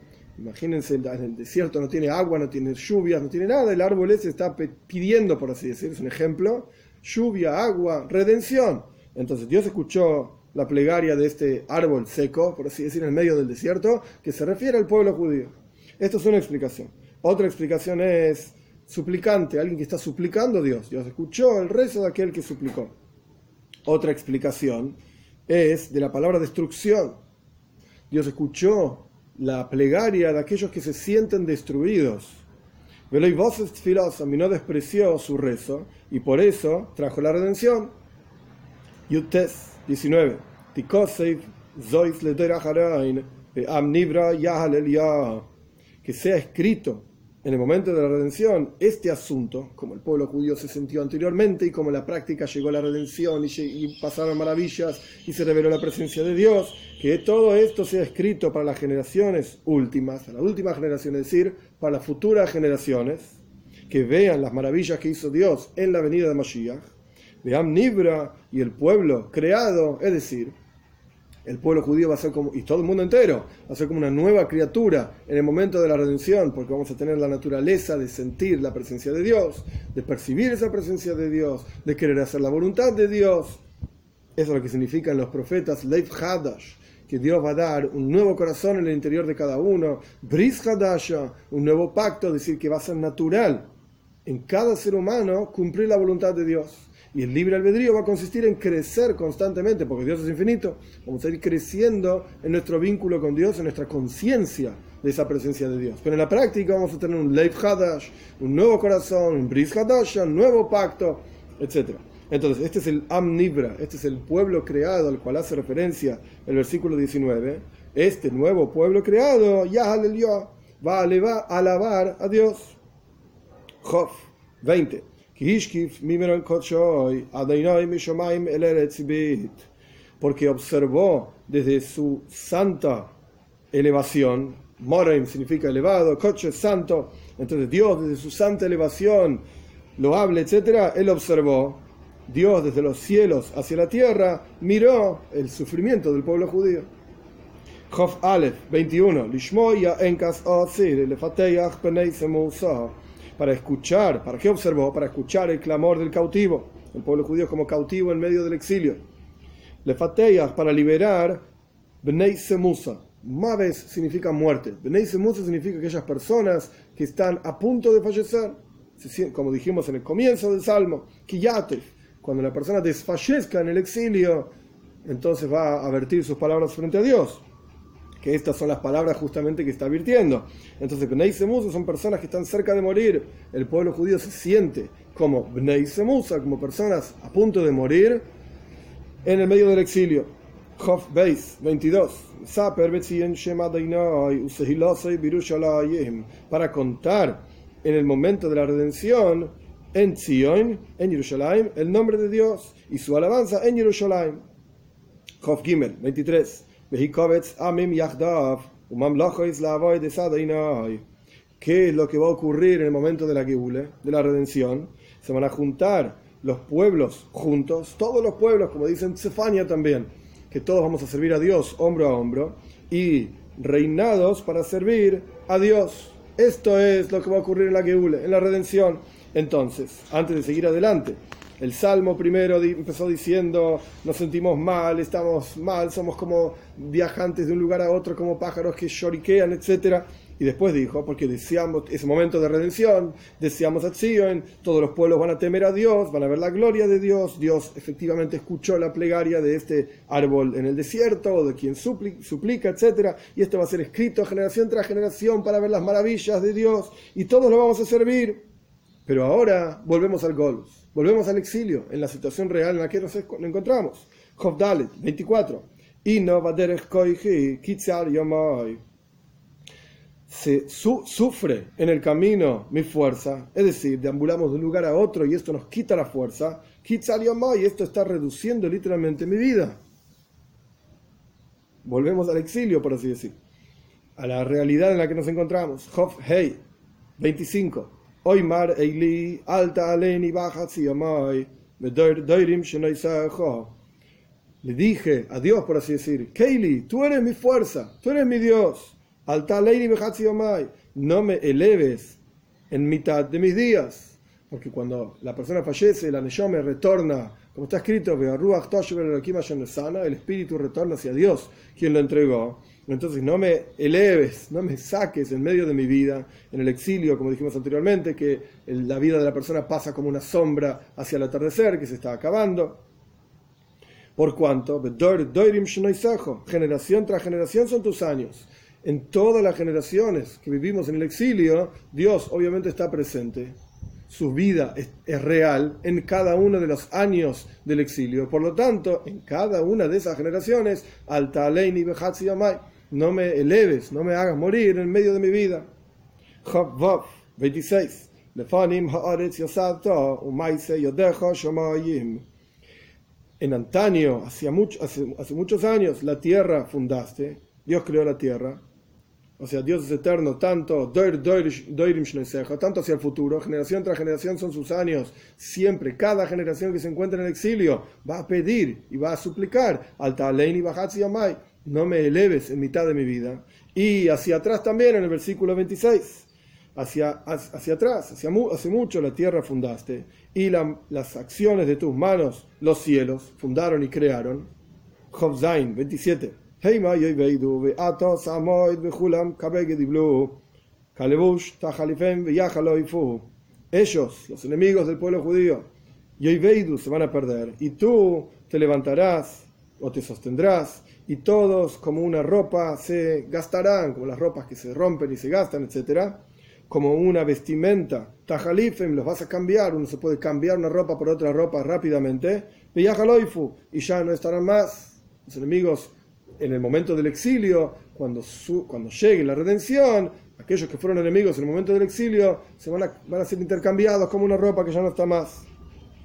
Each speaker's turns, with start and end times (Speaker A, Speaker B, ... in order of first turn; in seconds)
Speaker A: 0.4-22.9, 23.9-25.0, 25.5-27.2, 28.1-32.4, 33.1-37.9, 39.1-45.5, 46.0-63.4, 63.9-66.9, 67.4-70.5, 71.5-83.6, 84.4-93.7, 94.2-122.8, 123.8-129.7, 130.2-133.1, 133.7-139.4, 140.0-146.9, 147.9-159.0, 159.8-161.4, 162.0-174.5, 175.1-177.4, 178.2-188.2, 189.2-204.4, 205.4-211.0, 211.6-258.4, 259.1-268.8, 270.3-279.8, 281.8-283.4, 284.2-286.6, 287.2-293.7, 294.6-302.2, 302.7-322.8, 324.2-333.6, 334.1-345.6, 346.4-352.2, 353.4-358.6, 359.4-384.5, 385.1-390.4, 390.9-395.7, 396.2-425.5